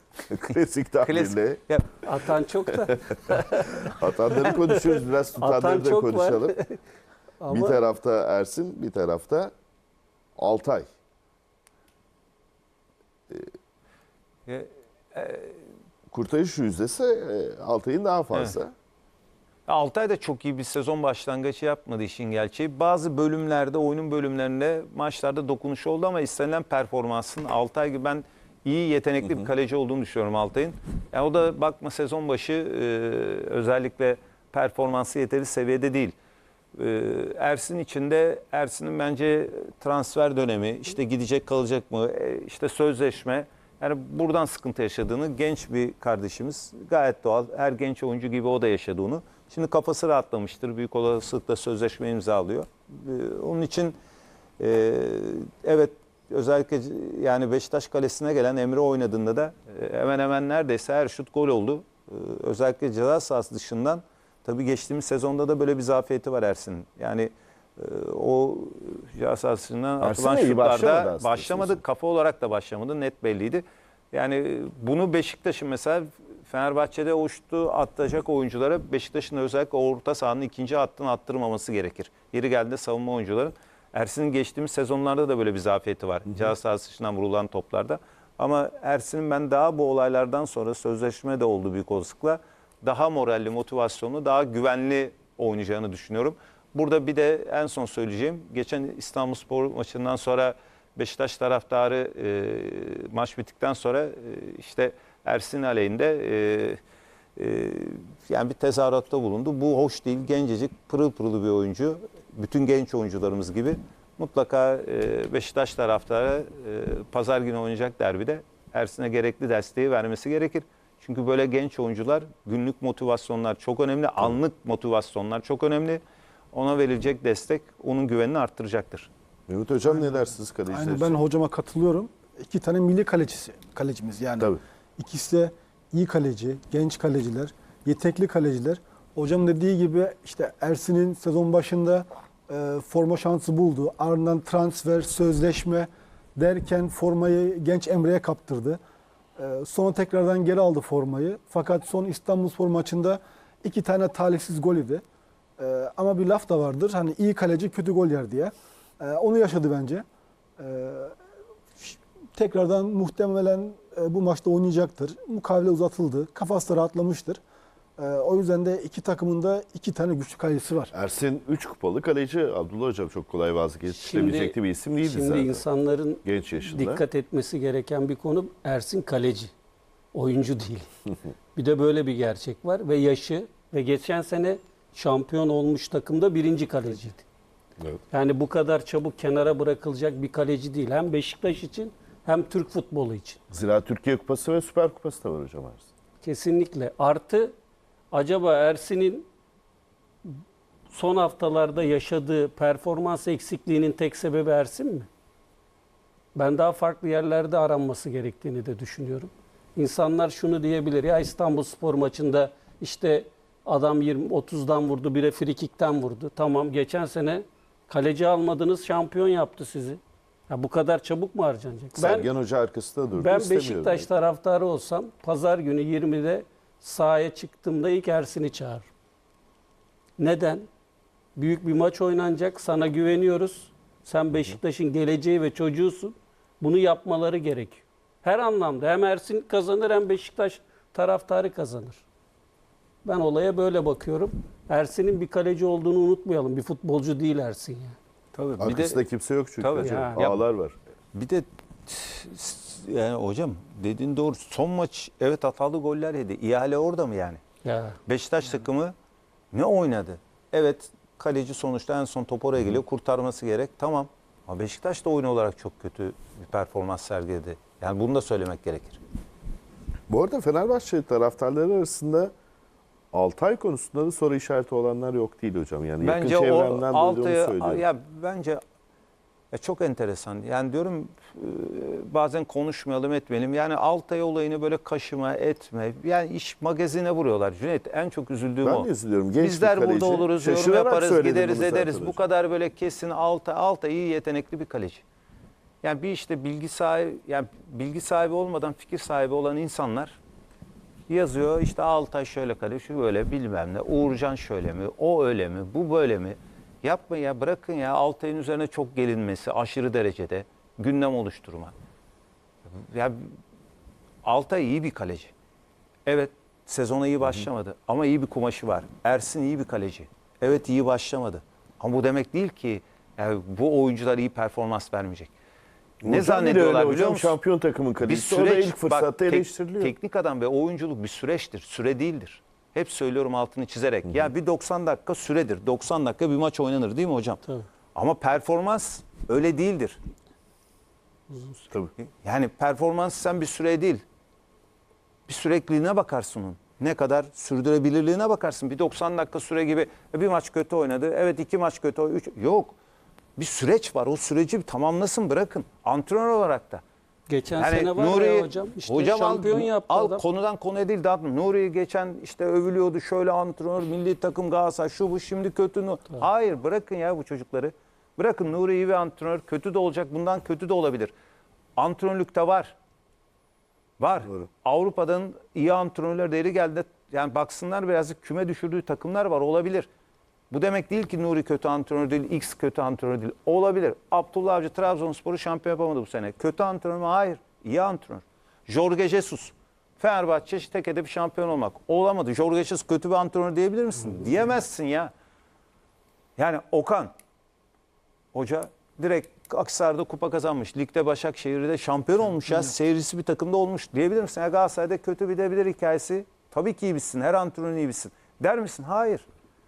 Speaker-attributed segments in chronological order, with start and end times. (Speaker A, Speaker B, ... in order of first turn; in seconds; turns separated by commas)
Speaker A: 0.3-1.6, Speaker B: 1.0-2.0, Speaker C: 2.0-6.8, Speaker A: 3.2-6.5, Speaker C: 7.4-7.8, Speaker A: 7.5-9.5, Speaker A: 10.4-10.9, Speaker B: 14.5-15.6, Speaker A: 16.1-18.7, Speaker B: 19.7-36.1, Speaker B: 36.8-54.0, Speaker B: 54.6-106.8, Speaker A: 70.0-71.8, Speaker B: 107.4-126.0, Speaker B: 126.5-129.1, Speaker A: 129.5-131.2, Speaker D: 129.9-148.8, Speaker D: 149.4-155.0, Speaker D: 155.6-160.0, Speaker D: 160.6-161.1, Speaker D: 161.8-167.4, Speaker D: 168.0-170.9, Speaker A: 170.9-175.6, Speaker C: 173.9-179.5, Speaker A: 176.2-177.0, Speaker C: 180.1-180.9, Speaker C: 181.5-187.2, Speaker C: 188.1-193.4, Speaker A: 193.5-195.9, Speaker C: 196.2-197.5, Speaker C: 198.1-199.3, Speaker C: 200.9-205.1, Speaker C: 206.3-222.3, Speaker A: 221.9-224.1, Speaker C: 223.2-228.9, Speaker C: 230.2-230.7, Speaker C: 231.3-242.0, Speaker C: 243.0-247.9, Speaker B: 248.3-249.0, Speaker A: 248.6-250.7, Speaker B: 249.6-250.4, Speaker C: 249.8-250.3, Speaker B: 251.1-257.4, Speaker C: 257.6-258.0, Speaker B: 258.1-258.9, Speaker B: 259.5-269.0, Speaker A: 270.1-272.3, Speaker A: 273.1-277.8, Speaker B: 276.0-278.6, Speaker B: 279.5-295.0, Speaker A: 288.6-292.2, Speaker B: 295.8-300.2, Speaker B: 301.1-311.7, Speaker B: 312.7-313.4, Speaker B: 314.2-315.3, Speaker B: 316.1-325.3, Speaker B: 326.0-327.4, Speaker A: 326.0-329.9, Speaker B: 328.0-337.4, Speaker B: 337.9-340.0, Speaker C: 341.3-341.6, Speaker B: 342.0-344.0, Speaker B: 345.3-352.7, Speaker B: 353.4-356.8, Speaker C: 357.3-360.2, Speaker B: 357.6-371.1, Speaker B: 371.8-372.7, Speaker B: 374.0-379.9, Speaker B: 380.5-395.1, Speaker B: 396.4-397.1, Speaker B: 398.3-409.2